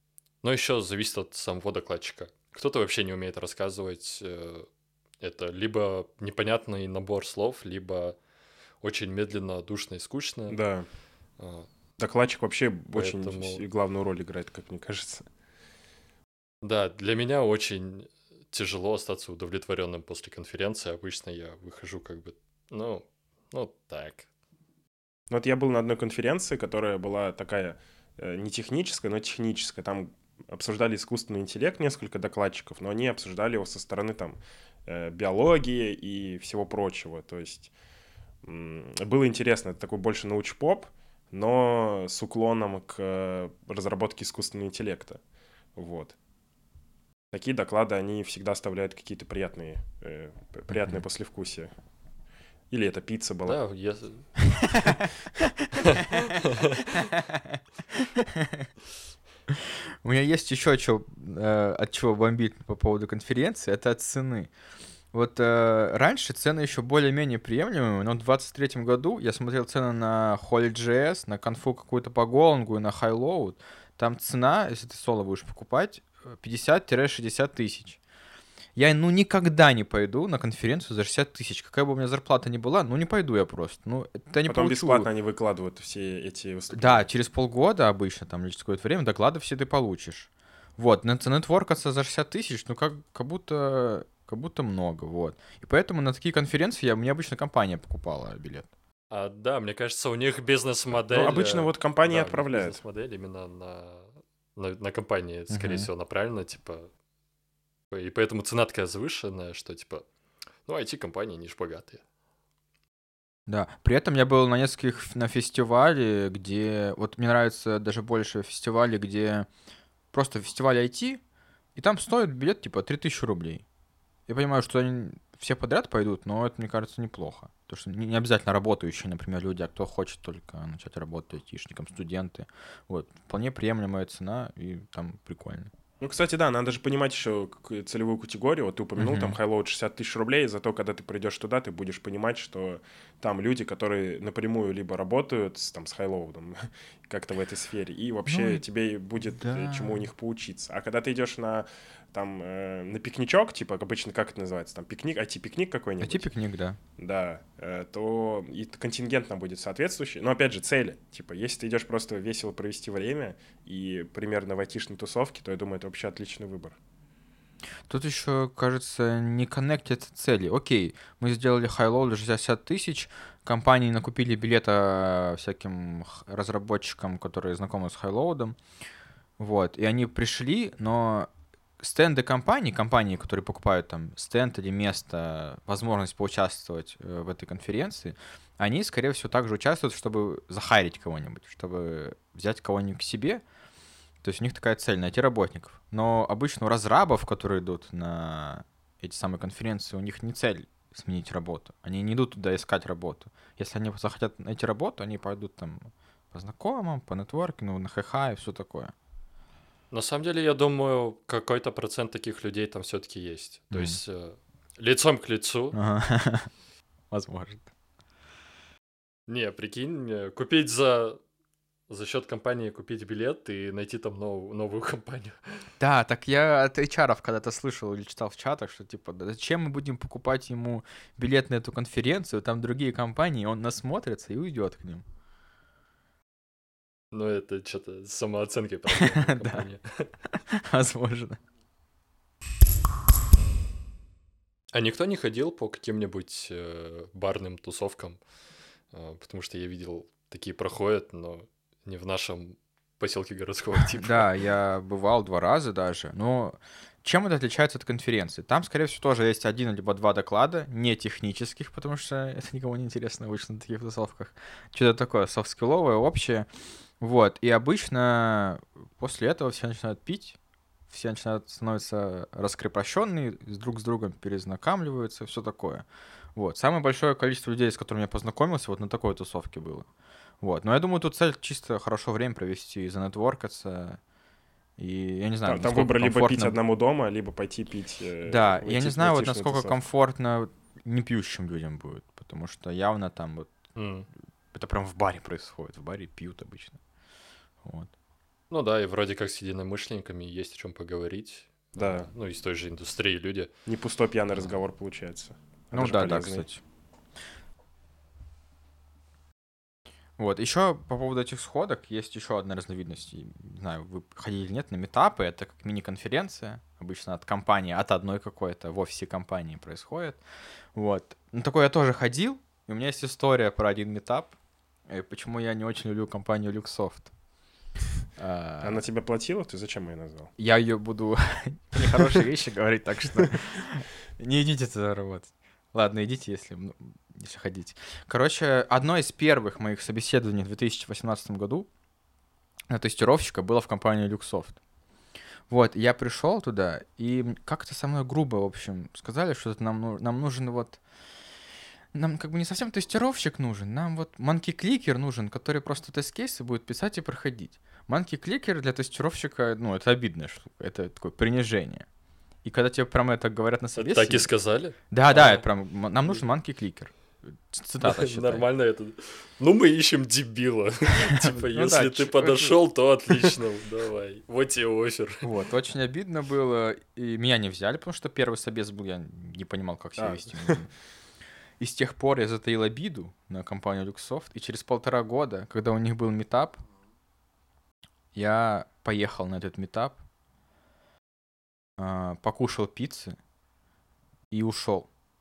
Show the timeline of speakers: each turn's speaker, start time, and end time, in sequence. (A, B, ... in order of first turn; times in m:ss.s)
0:00.4-0:04.7 A
0:05.2-0:08.2 A
0:08.8-0:10.6 A
0:10.5-0:10.9 B
0:11.4-0:11.7 A
0:12.0-0:15.2 B
0:12.9-0:13.6 A
0:16.6-0:24.3 A
0:25.3-0:37.7 B
0:38.4-0:45.2 B
0:45.8-0:46.2 B
0:47.3-0:51.7 B
0:50.7-0:51.0 C
0:52.7-0:53.6 B
0:53.4-0:54.7 A
0:55.7-0:57.1 A
0:57.1-0:58.7 C
0:59.5-1:04.5 C
1:05.1-1:18.0 C
1:18.7-1:25.1 C
1:24.4-1:27.1 B
1:26.7-1:38.7 C
1:39.1-1:46.9 A
1:41.1-1:42.8 B
1:45.5-1:45.9 C
1:47.9-1:50.0 A
1:50.6-1:52.0 A
1:53.5-1:59.5 C
2:00.1-2:01.2 C
2:01.7-2:03.6 C
2:04.3-2:15.7 C
2:16.0-2:36.3 B
2:19.0-2:19.4 C
2:28.2-2:28.6 C
2:29.2-2:30.1 C
2:36.0-2:36.8 C
2:37.0-2:46.8 B
2:47.9-2:58.6 C
2:59.4-3:13.4 C
3:14.2-3:28.9 C
3:29.9-3:35.8 A
3:33.7-3:34.0 C
3:35.7-3:36.5 C
3:37.1-3:37.7 C
3:39.3-3:41.2 A
3:41.9-3:45.7 A
3:45.8-3:55.0 C
3:57.1-4:00.1 A
3:59.0-3:59.7 C
4:00.3-4:01.4 C
4:04.7-4:08.2 A
4:08.9-4:14.3 A
4:13.8-4:26.5 C
4:27.0-4:30.4 C
4:30.9-4:39.9 C
4:40.4-4:44.0 C
4:44.8-4:46.6 C
4:45.4-4:49.8 B
4:48.2-4:53.5 C
4:53.8-4:54.1 A
4:54.5-4:56.8 C
4:57.6-4:57.9 C
4:58.5-5:03.5 A
5:01.8-5:02.1 B
5:03.6-5:06.4 B
5:05.7-5:06.6 C
5:10.2-5:20.2 C
5:20.7-5:24.3 C
5:24.9-5:27.1 C
5:28.2-5:28.8 C
5:28.6-5:30.3 B
5:30.4-5:41.7 C
5:42.7-5:44.6 C
5:45.5-5:50.8 C
5:51.9-6:01.8 C
6:02.4-6:04.3 C
6:03.8-6:05.5 A
6:04.9-6:08.4 C
6:07.8-6:15.2 A
6:11.2-6:12.6 C
6:15.2-6:20.7 C
6:20.0-6:20.6 B
6:21.6-6:26.6 C
6:28.1-6:30.0 C
6:31.8-6:33.2 C
6:34.3-6:34.9 C